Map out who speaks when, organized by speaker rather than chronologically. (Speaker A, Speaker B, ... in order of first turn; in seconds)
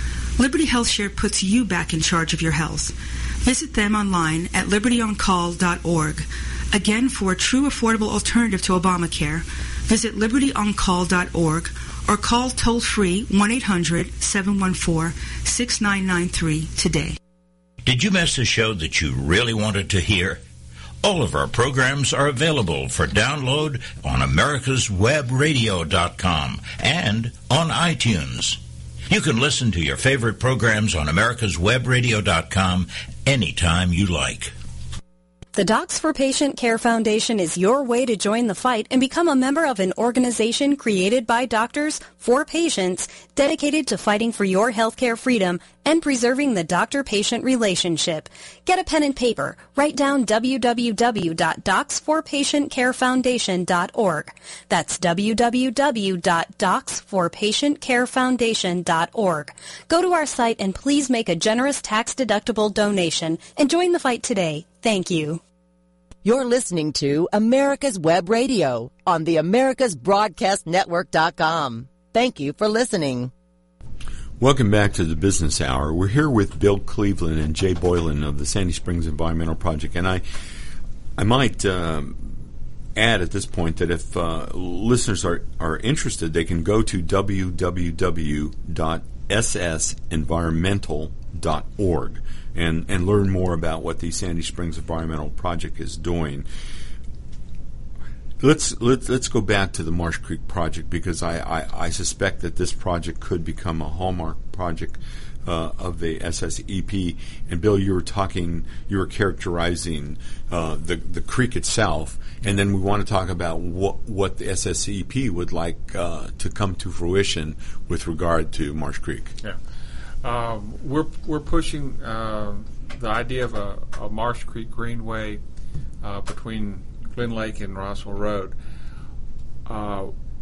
Speaker A: 0.4-17.2
Speaker B: 17.8-20.4, 21.0-34.5
Speaker C: 35.5-65.4
Speaker D: 66.2-73.3
Speaker E: 74.4-80.2, 81.2-82.4, 83.0-96.5, 98.4-119.3
Speaker F: 120.2-125.4, 126.0-128.5, 129.7-130.1